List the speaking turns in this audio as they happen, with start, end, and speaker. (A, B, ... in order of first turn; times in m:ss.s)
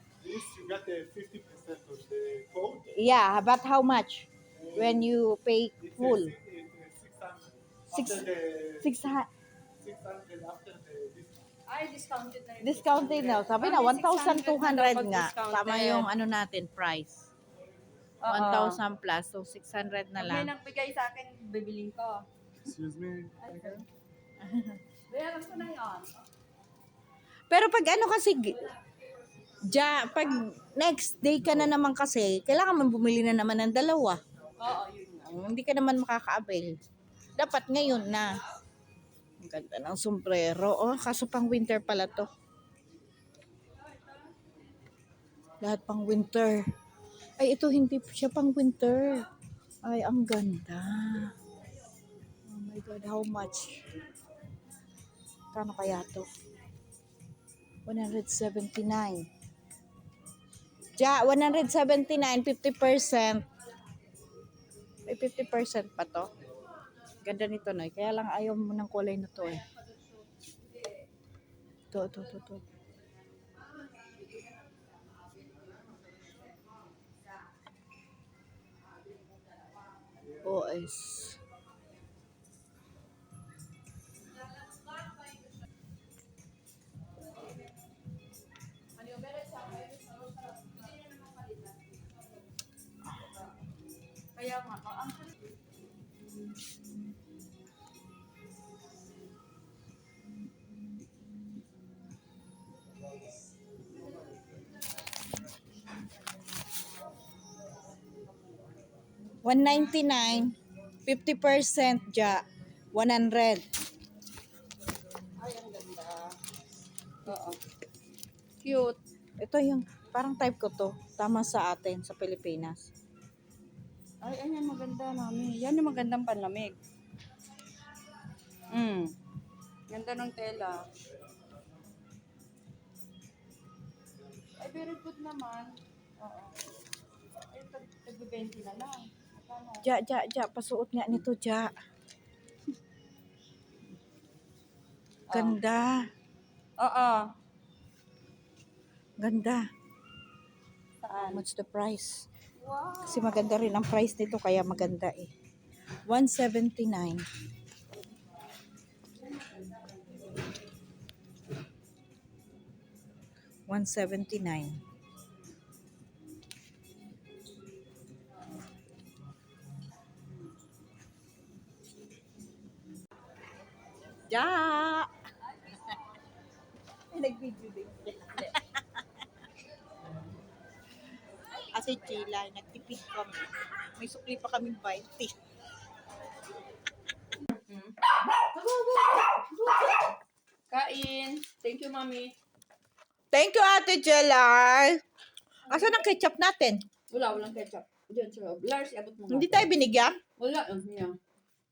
0:00.2-0:03.0 A
0:02.9-0:06.3 B
0:04.5-0:05.1 A
0:05.8-0:09.0 A
0:07.9-0:08.3 B
0:08.8-0:09.3 B
0:09.8-0:11.5 A
0:11.7-0:16.1 C
0:12.6-0:17.3 B
0:18.2-0:18.8 C
0:18.2-0:20.5 B
0:20.2-0:22.3 C
0:22.6-0:23.8 A
0:23.4-0:23.8 C
0:24.4-0:24.8 B
0:25.1-0:26.1 C
0:27.5-0:28.7 B
0:29.6-0:34.2 B
0:34.6-0:35.3 C
0:35.2-0:36.7 B
0:37.4-0:38.4 B
0:39.4-0:42.3 B
0:45.6-0:46.6 B
0:47.4-0:49.2 B
0:49.8-0:51.3 B
0:52.5-0:53.8 B
0:55.5-0:56.3 B
0:57.8-0:59.2 B
1:01.0-1:03.5 B
1:05.0-1:06.3 B
1:07.2-1:09.6 B
1:11.9-1:12.6 B
1:20.4-1:21.4 B
1:29.0-1:32.1 C
1:33.0-1:33.3 B
1:34.3-1:35.3 C
1:49.4-1:52.4 B
1:52.9-1:53.6 B
1:55.4-1:56.4 C
1:57.2-1:57.6 C
1:58.6-1:59.0 C
1:59.4-2:02.9 B
2:04.2-2:06.8 C
2:08.7-2:09.1 C
2:09.9-2:10.8 C
2:14.6-2:16.6 C
2:17.5-2:19.8 C
2:19.8-2:21.7 B
2:25.3-2:25.6 C
2:25.3-2:26.0 B
2:26.8-2:27.3 C
2:29.2-2:29.6 B
2:31.0-2:31.4 C
2:31.3-2:32.2 B
2:32.6-2:33.5 C
2:33.0-2:35.3 B
2:36.0-2:37.2 B
2:39.2-2:40.4 C
2:43.7-2:44.8 B
2:54.3-2:55.1 B
2:57.1-2:59.0 B
3:01.6-3:05.3 B
3:07.5-3:10.1 C
3:10.7-3:12.3 C
3:13.3-3:15.0 B
3:15.7-3:16.8 B
3:17.1-3:19.7 C
3:19.3-3:20.2 B
3:20.4-3:21.2 C